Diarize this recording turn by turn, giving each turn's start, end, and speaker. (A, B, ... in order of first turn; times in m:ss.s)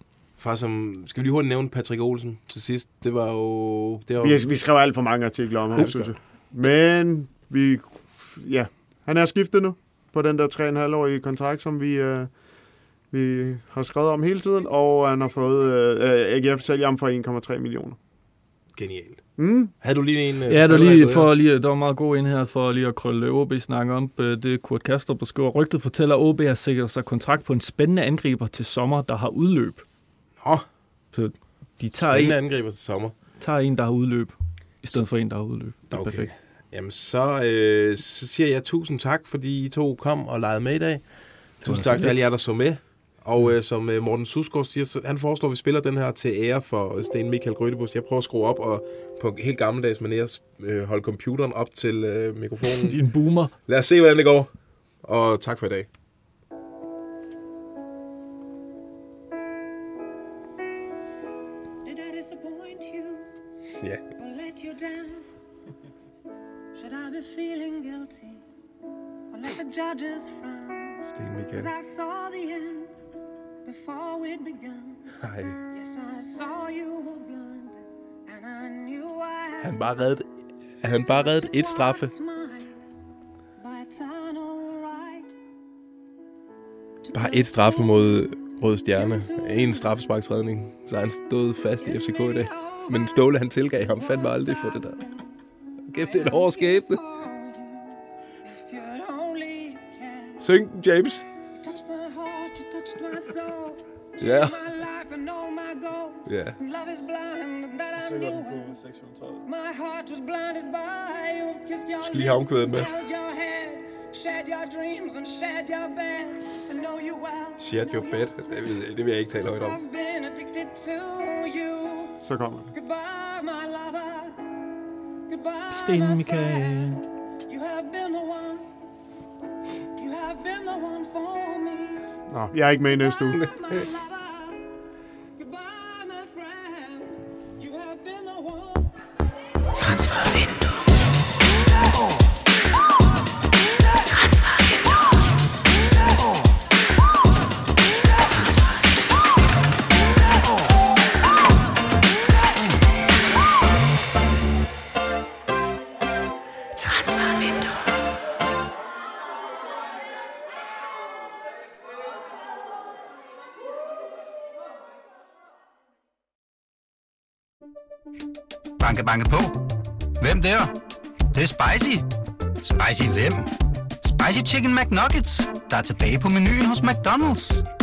0:00.4-0:04.5 A
0:04.2-0:12.3 B
0:05.7-0:06.1 A
0:13.1-0:18.0 B
0:18.7-0:19.2 A
0:19.4-0:19.7 B
0:19.8-0:21.3 A
0:20.5-0:29.8 C
0:30.4-0:30.7 A
0:31.1-0:32.4 C
0:31.9-0:33.1 A
0:33.4-0:36.3 C
0:35.9-0:41.0 A
0:41.6-0:53.0 A
0:41.6-0:42.2 C
0:52.8-0:53.5 C
0:53.7-0:54.5 A
0:55.0-0:55.9 A
1:01.8-1:03.3 D
1:04.2-1:05.2 D
1:06.7-1:08.4 D
1:09.3-1:12.9 D
1:11.0-1:11.7 A
1:13.6-1:15.0 D
1:15.2-1:15.6 A
1:15.7-1:20.1 D
1:19.6-1:20.2 A
1:20.8-1:22.1 A
1:20.8-1:22.8 D
1:23.6-1:25.3 D
1:27.0-1:29.9 D
1:27.1-1:35.0 A
1:31.8-1:35.4 D
1:35.9-1:37.0 A
1:35.9-1:40.4 D
1:40.4-1:41.3 A
1:41.6-1:48.8 D
1:44.2-1:44.7 A
1:46.2-1:46.6 A
1:48.0-1:49.4 C
1:49.4-1:58.9 D
1:52.0-1:52.9 A
1:57.6-1:59.8 A
1:59.5-2:02.2 D
2:02.2-2:02.7 B
2:02.7-2:04.4 D
2:05.3-2:08.7 D
2:05.7-2:07.0 C
2:10.0-2:12.1 D
2:12.3-2:13.4 B
2:12.9-2:14.6 D
2:15.4-2:18.9 D
2:48.8-2:49.6 E
2:50.2-2:50.7 E
2:51.3-2:52.0 E
2:52.6-2:53.5 E
2:54.0-2:57.6 E